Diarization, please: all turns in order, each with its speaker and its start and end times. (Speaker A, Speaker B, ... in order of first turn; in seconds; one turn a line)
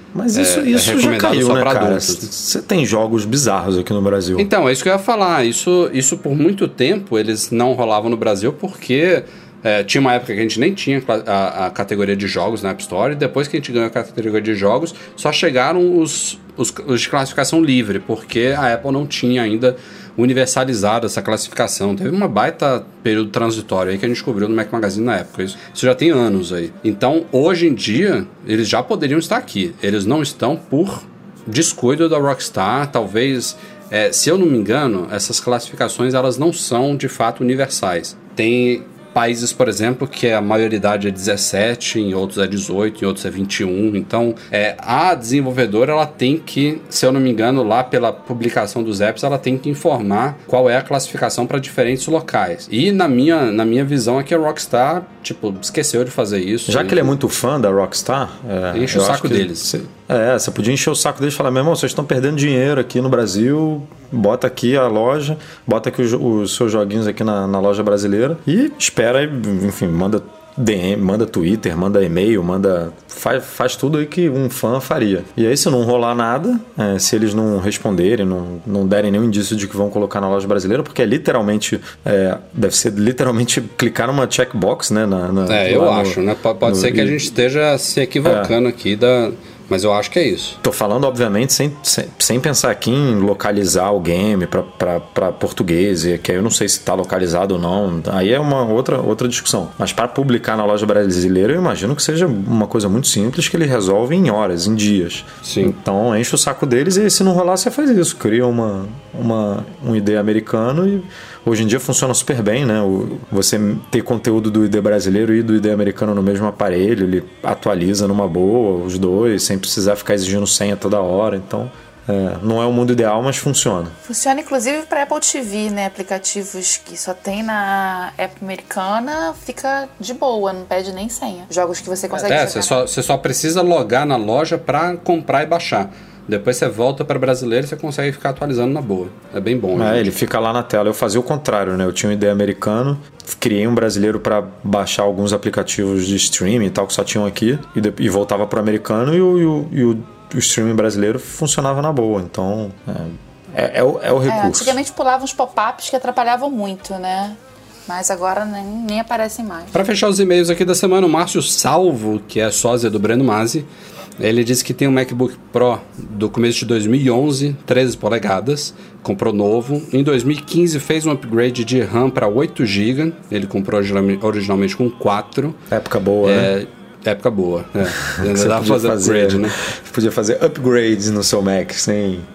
Speaker A: 0.1-4.5
Speaker B: 0.3-2.3
Speaker B: 4.4-57.1
Speaker A: 56.7-87.3
Speaker B: 58.7-59.7
Speaker B: 85.5-90.6
Speaker A: 88.2-88.5
Speaker A: 90.6-124.0
Speaker B: 105.4-105.7
Speaker C: 124.0-132.8
Speaker B: 132.2-140.2
Speaker A: 139.7-154.8
Speaker C: 154.3-159.7
Speaker B: 159.7-175.6
Speaker A: 175.7-176.5
Speaker B: 176.2-179.6
Speaker A: 177.8-182.2